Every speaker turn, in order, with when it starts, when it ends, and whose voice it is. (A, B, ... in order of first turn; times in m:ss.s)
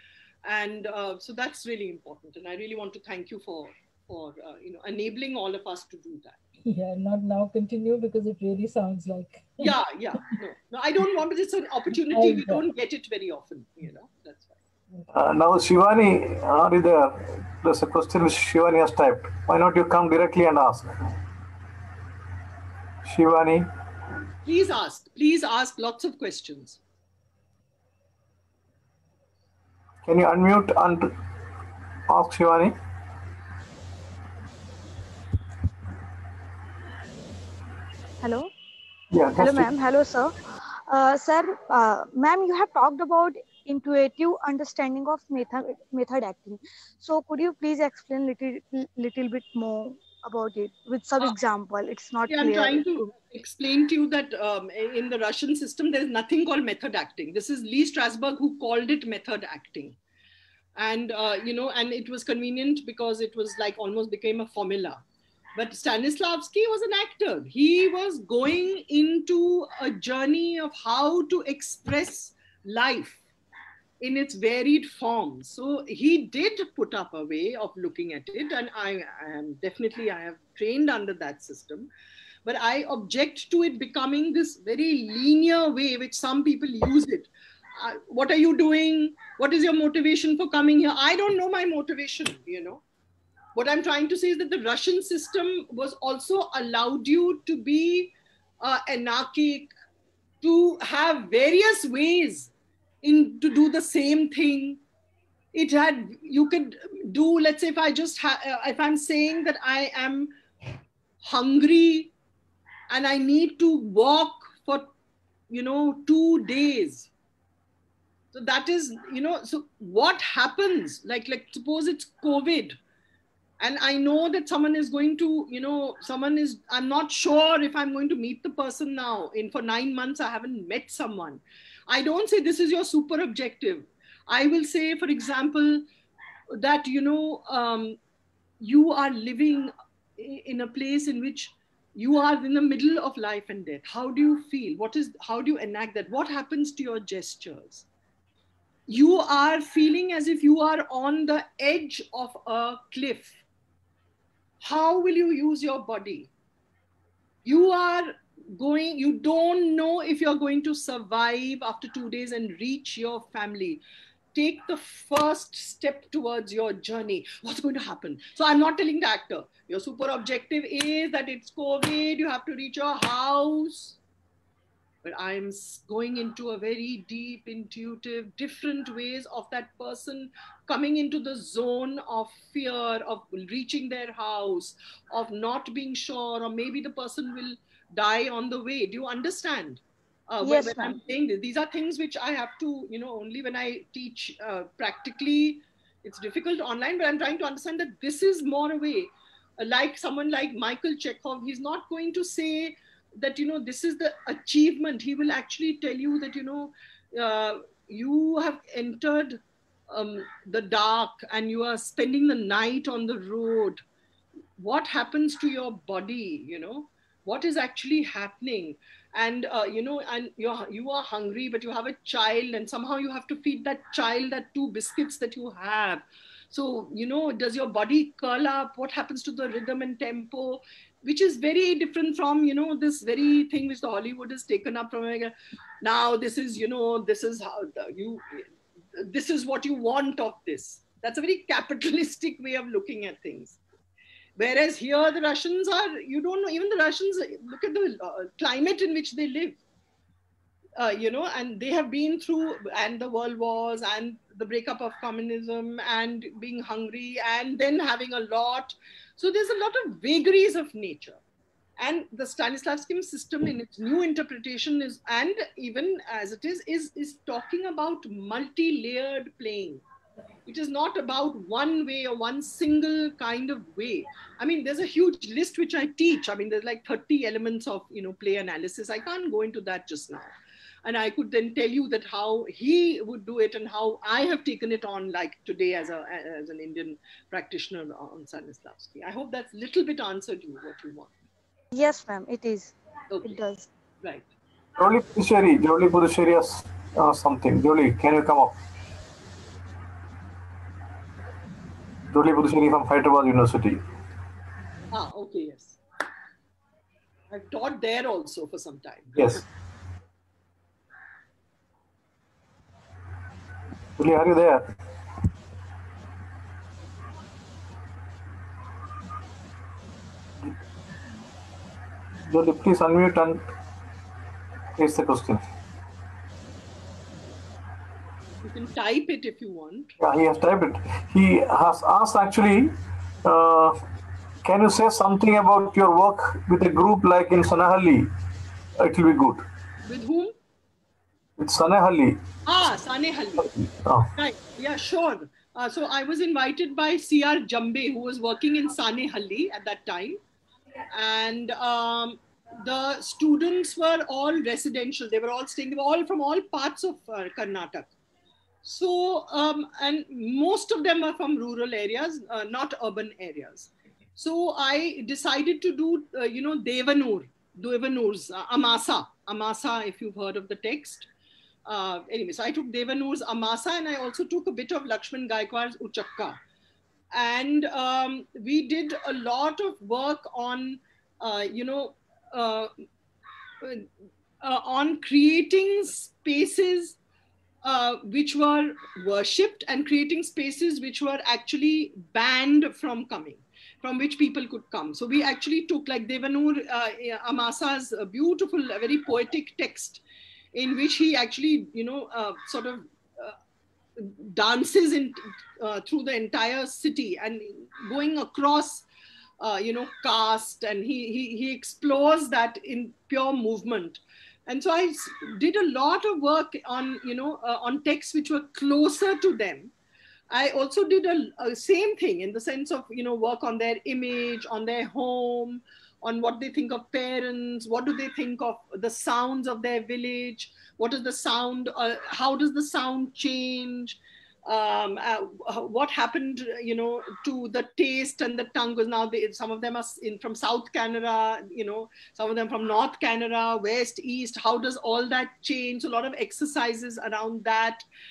0:00.4-0:06.4 A
0:06.6-0:09.7 B
0:09.6-0:14.6 A
0:12.1-0:12.6 B
0:15.1-0:20.9 C
0:23.0-0:23.6 C
0:24.4-0:26.8 A
0:30.0-0:31.1 C
0:32.1-0:32.7 C
0:38.2-0:38.5 D
0:39.1-0:39.7 C
0:39.4-0:40.3 D
0:40.9-0:53.0 D
0:52.3-1:00.0 A
1:00.8-1:05.0 A
1:05.6-1:13.2 A
1:14.0-1:21.9 A
1:22.4-1:32.8 A
1:33.5-1:39.7 A
1:40.4-1:42.5 A
1:43.0-1:44.8 A
1:45.5-1:50.3 A
1:51.2-1:52.1 A
1:52.9-1:54.9 A
1:55.5-1:57.1 A
1:58.3-2:02.8 A
2:03.6-2:15.8 A
2:16.5-2:18.0 A
2:18.6-2:27.8 A
2:28.9-2:33.4 A
2:34.6-2:36.3 A
2:37.4-2:43.8 A
2:44.3-2:54.0 A
2:55.0-3:33.8 A
3:10.4-3:11.0 D
3:34.6-4:03.6 A
4:04.4-4:09.6 A
4:10.8-4:21.2 A
4:21.8-4:29.8 A
4:30.5-4:51.1 A
4:51.7-4:53.7 D
4:53.1-4:53.4 A
4:54.0-4:54.3 A
4:54.8-4:58.6 C
5:02.1-5:03.8 C
5:04.9-5:05.8 A
5:07.3-5:09.4 A
5:09.2-5:09.4 C
5:14.0-5:14.6 C
5:22.3-5:23.4 C
5:24.8-5:25.4 C
5:28.4-5:29.9 A
5:30.0-5:33.8 C
5:34.4-5:38.1 C
5:38.8-5:39.4 C
5:39.8-5:40.3 A
5:41.4-5:42.2 C
5:42.4-5:43.5 A
5:43.4-5:44.1 C
5:44.1-5:50.2 A
5:50.9-5:57.9 A
5:58.6-6:11.1 A
6:11.6-6:16.4 A
6:17.1-6:22.7 A
6:23.6-6:23.9 A
6:24.4-6:27.0 A
6:27.6-6:40.0 A
6:40.5-6:43.4 A
6:44.0-6:48.8 A
6:49.4-6:59.7 A
7:00.3-7:27.8 A